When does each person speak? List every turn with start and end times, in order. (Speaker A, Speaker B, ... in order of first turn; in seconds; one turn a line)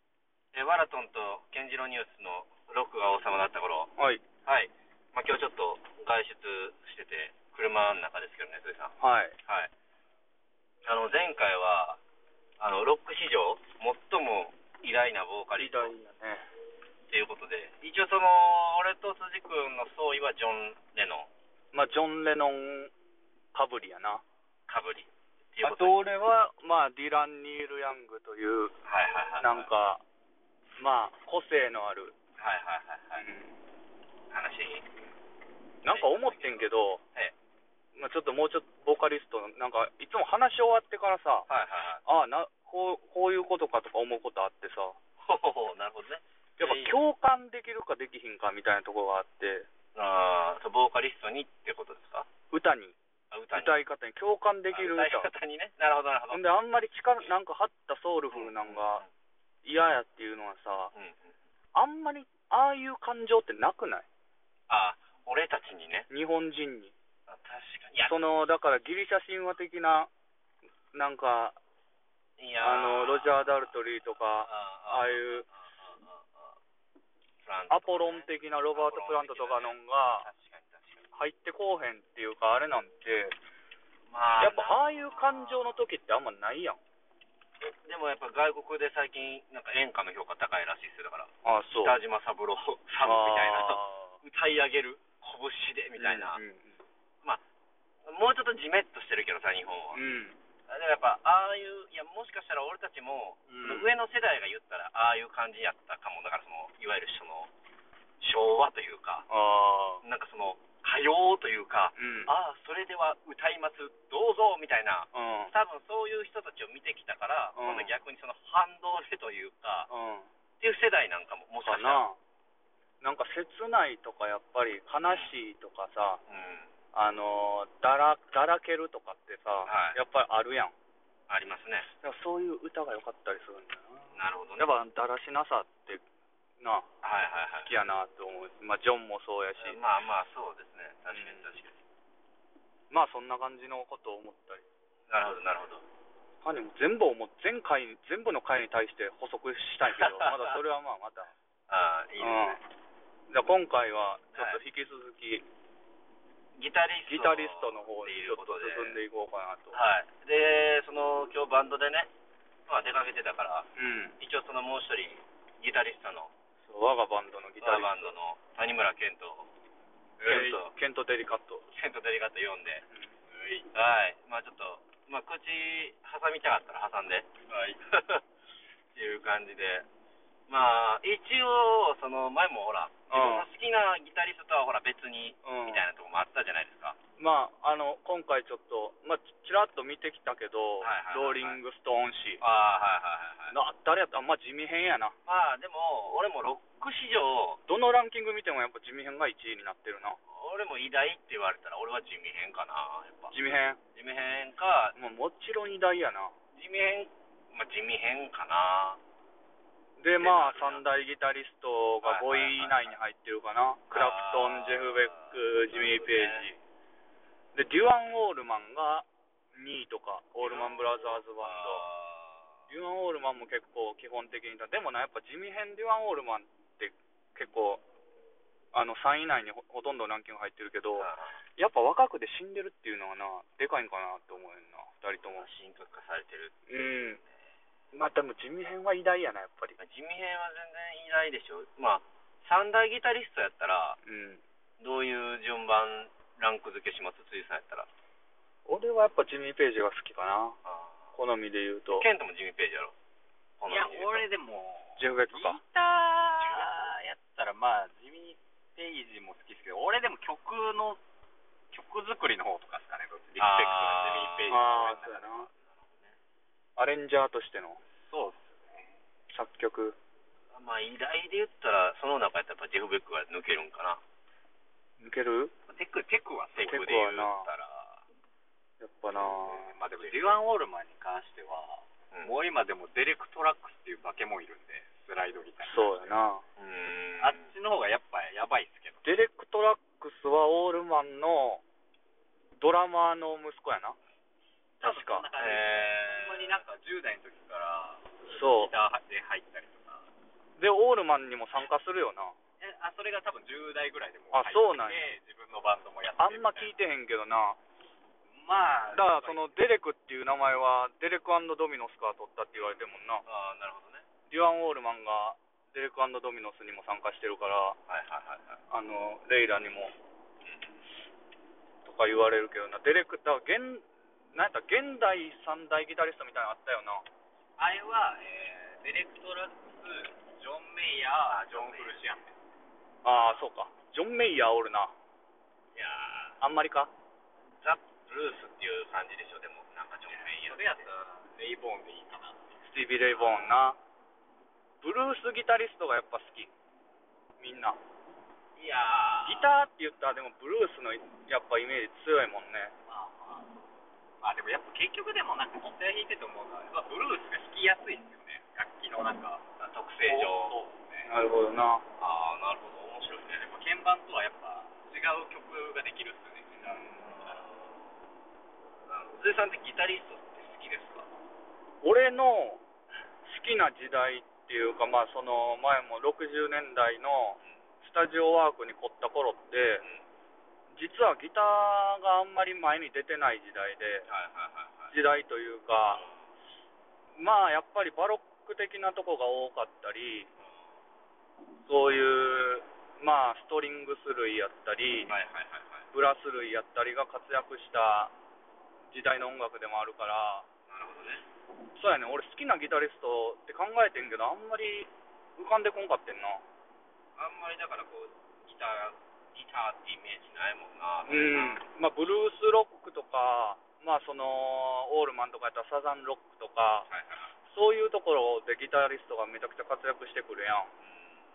Speaker A: 0.5-3.9
Speaker B: 4.0-4.2
Speaker A: 4.4-9.7
Speaker B: 9.0-9.4
Speaker A: 10.8-12.0
Speaker A: 12.6-15.9
Speaker B: 15.6-16.5
Speaker A: 17.1-21.3
Speaker B: 21.7-22.9
Speaker B: 23.5-24.2
Speaker A: 24.7-26.0
Speaker B: 25.6-28.8
Speaker A: 28.8-29.7
Speaker B: 29.4-30.0
Speaker B: 30.8-32.1
Speaker A: 32.4-33.2
Speaker B: 33.2-33.5
Speaker A: 34.3-34.8
Speaker B: 35.8-37.0
Speaker A: 35.9-37.3
Speaker B: 37.9-41.5
Speaker A: 41.5-42.0
Speaker B: 42.0-45.0
Speaker A: 45.2-46.9
Speaker B: 46.6-49.7
Speaker A: 49.9-52.3
Speaker B: 52.5-53.0
Speaker A: 53.3-53.8
Speaker B: 53.5-55.3
Speaker A: 54.7-56.4
Speaker B: 56.3-59.0
Speaker A: 58.3-59.1
Speaker B: 59.6-60.9
Speaker A: 60.9-61.3
Speaker B: 61.7-64.1
Speaker A: 64.7-66.1
Speaker B: 66.1-66.9
Speaker A: 67.3-68.2
Speaker B: 68.0-70.1
Speaker B: 70.9-71.5
Speaker A: 72.4-76.5
Speaker B: 72.6-75.4
Speaker A: 77.4-81.1
Speaker B: 77.7-80.3
Speaker B: 81.1-83.3
Speaker A: 84.1-85.8
Speaker B: 84.4-86.8
Speaker A: 87.6-96.4
Speaker B: 91.4-92.0
Speaker B: 93.0-94.2
Speaker B: 96.0-96.8
Speaker A: 98.0-100.0
Speaker B: 99.9-100.4
Speaker A: 100.7-107.5
Speaker B: 103.5-103.9
Speaker A: 108.2-109.3
Speaker B: 109.3-110.0
Speaker A: 110.0-119.9
Speaker B: 111.9-112.3
Speaker B: 115.1-115.5
Speaker B: 117.5-118.0
Speaker B: 119.9-120.3
Speaker A: 120.6-122.0
Speaker B: 121.6-122.2
Speaker B: 123.0-126.2
Speaker A: 125.0-125.3
Speaker A: 126.3-126.7
Speaker B: 126.9-130.7
Speaker A: 129.6-130.0
Speaker A: 131.3-131.9
Speaker B: 131.9-136.0
Speaker A: 134.1-134.7
Speaker B: 136.6-136.9
Speaker A: 137.0-137.7
Speaker B: 137.7-139.8
Speaker A: 139.6-141.8
Speaker B: 141.1-141.5
Speaker B: 142.9-144.6
Speaker A: 145.1-145.8
Speaker B: 146.4-151.3
Speaker A: 149.9-150.5
Speaker A: 151.7-152.6
Speaker B: 152.2-152.6
Speaker B: 153.3-155.4
Speaker A: 154.3-154.6
Speaker A: 156.6-159.0
Speaker B: 157.1-159.8
Speaker A: 159.7-162.1
Speaker A: 162.7-163.7
Speaker B: 163.8-164.2
Speaker A: 164.2-166.3
Speaker B: 166.7-168.1
Speaker A: 167.6-169.5
Speaker A: 170.2-170.7
Speaker B: 170.2-171.7
Speaker A: 171.7-172.8
Speaker A: 173.4-178.2
Speaker A: 178.9-179.9
Speaker A: 180.5-187.0
Speaker B: 183.1-183.5
Speaker B: 185.4-185.8
Speaker B: 187.2-192.4
Speaker A: 190.8-191.6
Speaker A: 192.4-193.5
Speaker B: 193.5-195.2
Speaker A: 195.2-197.6
Speaker B: 197.7-200.2
Speaker A: 200.3-203.3
Speaker B: 203.3-203.8
Speaker A: 203.9-204.9
Speaker B: 204.9-206.3
Speaker A: 206.5-209.0
Speaker B: 210.0-216.6
Speaker A: 210.2-210.8
Speaker A: 212.0-212.9
Speaker A: 213.9-216.5
Speaker B: 217.5-221.9
Speaker A: 220.4-222.5
Speaker B: 222.7-227.8
Speaker B: 228.7-235.5
Speaker A: 230.9-231.4
Speaker A: 235.4-236.5
Speaker B: 236.7-237.2
Speaker B: 237.9-239.8
Speaker A: 239.8-244.0
Speaker B: 244.0-244.4
Speaker A: 244.8-247.9
Speaker B: 248.7-250.6
Speaker A: 250.6-251.1
Speaker B: 251.1-252.1
Speaker A: 251.9-252.9
Speaker A: 253.6-254.3
Speaker C: 253.7-261.0
Speaker B: 255.0-255.6
Speaker A: 256.4-256.7
Speaker C: 261.7-265.5
Speaker A: 263.4-266.1
Speaker B: 264.5-265.5
Speaker B: 266.8-267.8
Speaker C: 268.0-268.9
Speaker B: 269.3-270.0
Speaker A: 270.5-274.0
Speaker B: 275.0-275.5
Speaker C: 275.7-276.8
Speaker A: 276.5-278.0
Speaker B: 276.6-277.5
Speaker B: 278.8-279.8
Speaker C: 279.6-286.2
Speaker A: 279.9-280.3
Speaker B: 285.6-286.4
Speaker A: 286.6-287.5
Speaker C: 287.2-289.1
Speaker B: 289.0-291.6
Speaker B: 292.6-293.9
Speaker C: 294.8-300.0
Speaker B: 294.8-295.3
Speaker A: 295.4-296.6
Speaker B: 298.2-298.7
Speaker B: 300.6-302.3
Speaker C: 302.6-306.8
Speaker B: 304.3-305.1
Speaker B: 306.2-307.6
Speaker C: 308.3-309.5
Speaker B: 308.9-313.2
Speaker A: 312.5-314.1
Speaker B: 314.3-317.8
Speaker A: 317.9-318.6
Speaker B: 318.7-319.9
Speaker B: 321.8-327.0
Speaker C: 327.6-332.4
Speaker A: 331.2-332.0
Speaker B: 333.0-334.9
Speaker A: 335.7-336.4
Speaker B: 336.4-336.9
Speaker A: 337.6-340.7
Speaker C: 340.1-342.5
Speaker B: 342.6-343.8
Speaker B: 344.8-346.5
Speaker B: 347.4-347.8
Speaker A: 348.6-349.5
Speaker B: 349.2-352.7
Speaker C: 352.9-353.5
Speaker C: 354.2-359.4
Speaker A: 359.6-360.6
Speaker C: 360.0-361.1
Speaker B: 361.0-361.8
Speaker A: 362.0-363.5
Speaker C: 363.4-367.4
Speaker A: 366.6-367.8
Speaker A: 368.9-371.1
Speaker B: 371.8-372.6
Speaker B: 373.2-379.8
Speaker B: 380.7-384.1
Speaker A: 384.1-384.9
Speaker B: 384.9-386.0
Speaker A: 385.9-386.3
Speaker B: 387.2-390.3
Speaker A: 390.4-390.8
Speaker B: 391.6-395.1
Speaker A: 395.1-395.9
Speaker B: 395.9-398.1
Speaker B: 398.9-400.4
Speaker A: 400.7-401.2
Speaker B: 401.8-406.4
Speaker A: 407.1-411.7
Speaker B: 411.1-416.9
Speaker A: 416.9-417.3
Speaker B: 417.5-420.7
Speaker A: 420.8-421.1